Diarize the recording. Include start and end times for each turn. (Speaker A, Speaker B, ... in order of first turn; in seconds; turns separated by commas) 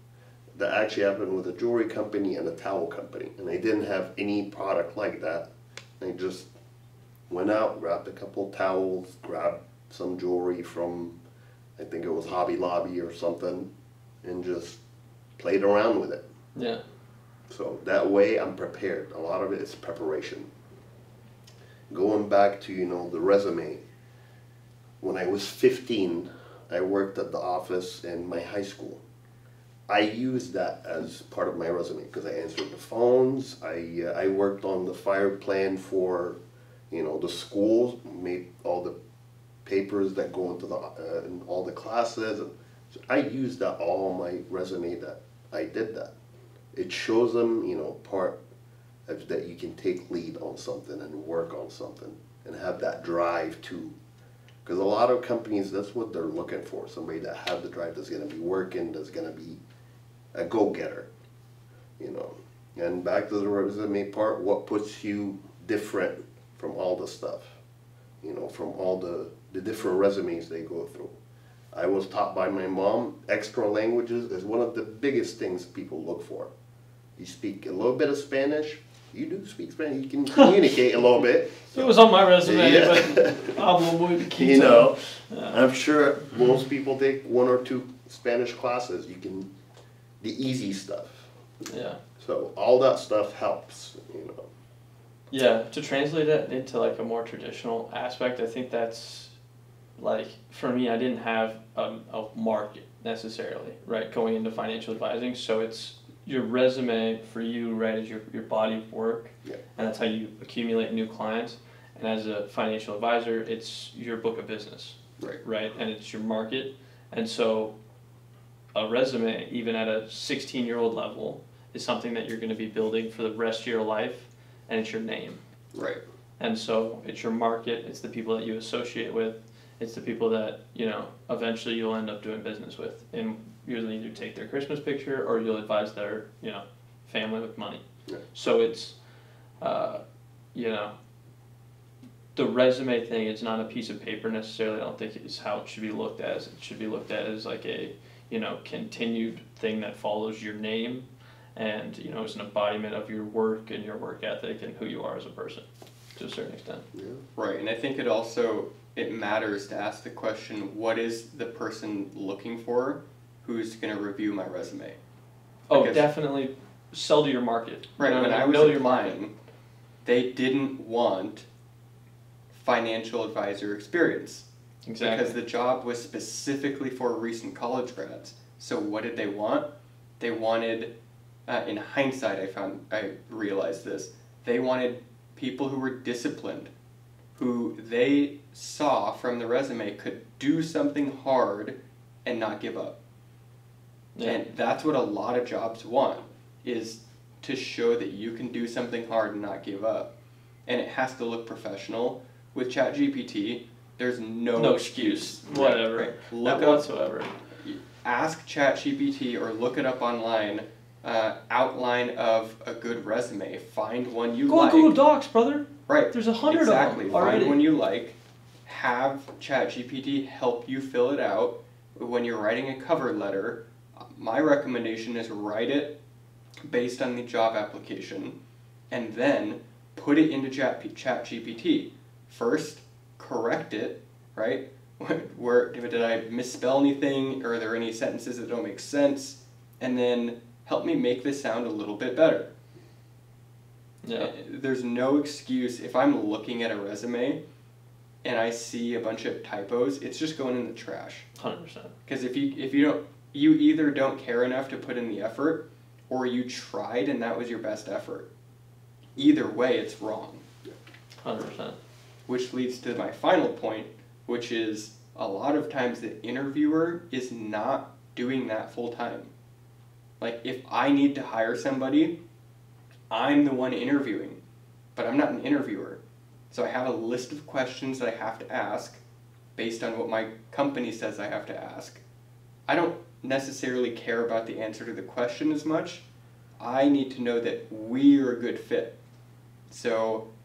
Speaker A: 0.6-5.5, Speaker A: 6.0-6.5, Speaker A: 7.3-11.2, Speaker A: 11.8-13.7, Speaker A: 14.2-14.8, Speaker A: 15.4-16.2, Speaker B: 16.6-16.8, Speaker A: 17.5-20.5, Speaker A: 21.9-23.8, Speaker A: 25.0-29.0, Speaker A: 29.9-36.4, Speaker A: 36.9-39.0, Speaker A: 39.6-46.1, Speaker A: 46.7-48.4, Speaker A: 49.1-54.0, Speaker A: 54.6-59.6, Speaker A: 60.4-61.1, Speaker A: 62.0-67.6, Speaker A: 68.2-71.2, Speaker A: 71.7-76.5, Speaker A: 77.2-83.6, Speaker B: 81.7-85.7, Speaker A: 84.2-89.5, Speaker A: 90.2-91.3, Speaker B: 91.7-92.0, Speaker A: 92.2-94.5, Speaker B: 95.3-99.3, Speaker B: 100.0-117.7, Speaker B: 118.7-125.4, Speaker C: 125.7-126.0, Speaker B: 126.4-137.8, Speaker B: 138.3-139.0, Speaker B: 139.6-140.0, Speaker B: 140.5-140.9, Speaker B: 142.3-156.8, Speaker A: 156.9-157.2, Speaker C: 157.4-165.0, Speaker B: 165.7-169.2, Speaker C: 165.7-166.1, Speaker C: 168.0-169.3, Speaker C: 170.1-171.5, Speaker C: 172.5-174.5, Speaker B: 174.9-175.4, Speaker C: 175.0-179.7, Speaker C: 180.2-180.9, Speaker C: 181.5-186.7, Speaker C: 187.3-193.0, Speaker B: 194.2-194.4, Speaker C: 194.2-200.1, Speaker C: 200.7-206.9, Speaker B: 204.6-207.3, Speaker C: 207.6-214.9, Speaker B: 214.5-217.6, Speaker C: 215.9-226.0, Speaker C: 226.7-228.4, Speaker C: 228.9-242.5, Speaker B: 244.0-244.3, Speaker C: 244.2-247.4, Speaker C: 248.2-251.3, Speaker B: 251.4-251.9, Speaker C: 252.1-258.3, Speaker C: 259.2-260.4, Speaker B: 261.2-261.8, Speaker C: 262.3-269.3, Speaker C: 270.2-272.2, Speaker C: 273.1-274.4, Speaker C: 275.0-276.0, Speaker C: 276.5-279.0, Speaker C: 279.6-282.0, Speaker C: 282.7-286.1, Speaker C: 286.6-289.0, Speaker C: 289.7-290.3